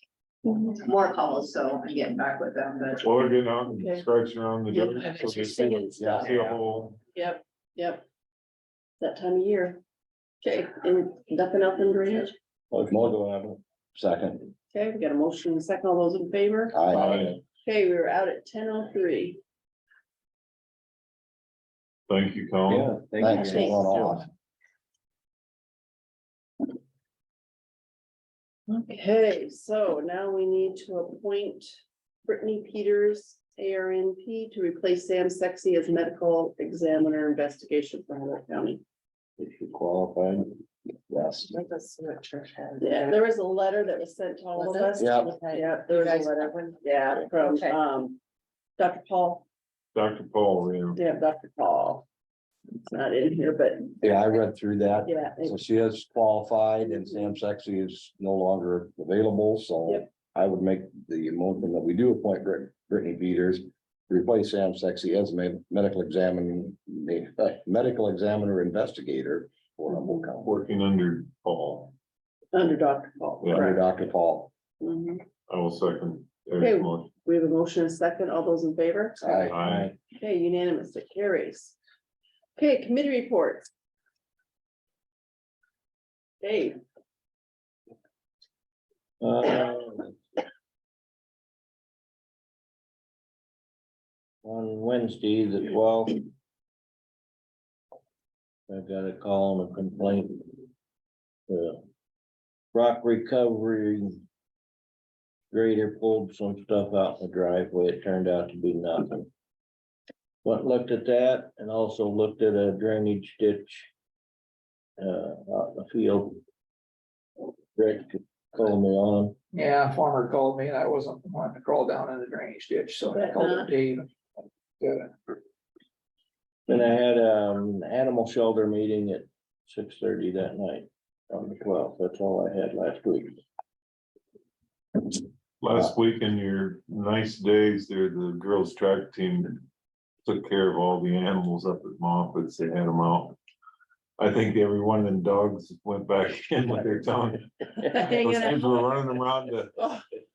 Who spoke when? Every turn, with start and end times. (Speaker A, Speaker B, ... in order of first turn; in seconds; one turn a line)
Speaker A: 0.6-3.1
Speaker B: 3.0-7.0
Speaker C: 3.7-4.0
Speaker C: 4.7-6.3
Speaker D: 6.0-6.5
Speaker C: 7.1-8.0
Speaker C: 9.0-9.8
Speaker C: 10.4-12.3
Speaker E: 12.7-13.6
Speaker D: 12.9-13.2
Speaker D: 13.9-14.5
Speaker C: 14.7-19.4
Speaker D: 16.7-17.4
Speaker B: 16.9-17.4
Speaker B: 22.1-22.9
Speaker E: 22.7-24.2
Speaker D: 23.1-24.3
Speaker C: 23.2-24.1
Speaker C: 28.8-38.8
Speaker E: 39.4-40.6
Speaker D: 41.1-41.5
Speaker F: 41.6-43.1
Speaker C: 42.8-48.2
Speaker F: 44.6-46.7
Speaker D: 45.0-45.4
Speaker C: 48.8-49.5
Speaker B: 49.9-51.0
Speaker C: 50.9-52.0
Speaker C: 52.8-54.0
Speaker D: 54.0-70.5
Speaker C: 55.0-55.6
Speaker C: 69.9-70.2
Speaker B: 70.4-71.9
Speaker C: 72.5-73.8
Speaker B: 73.4-73.7
Speaker D: 73.5-74.5
Speaker C: 74.8-75.2
Speaker B: 75.5-77.1
Speaker C: 76.6-79.5
Speaker D: 79.2-79.6
Speaker E: 79.5-80.0
Speaker B: 79.5-79.9
Speaker C: 80.1-81.8
Speaker C: 82.6-83.7
Speaker C: 86.4-86.8
Speaker E: 89.2-90.1
Speaker E: 94.4-96.2
Speaker E: 98.7-100.6
Speaker E: 101.5-101.8
Speaker E: 102.7-104.2
Speaker E: 105.5-109.3
Speaker E: 110.4-113.9
Speaker E: 115.0-116.4
Speaker E: 117.8-119.3
Speaker G: 119.5-124.1
Speaker C: 123.1-123.7
Speaker G: 124.8-125.1
Speaker E: 126.7-133.4
Speaker B: 135.6-139.7
Speaker B: 140.2-143.4
Speaker B: 144.2-149.8
Speaker C: 147.9-148.8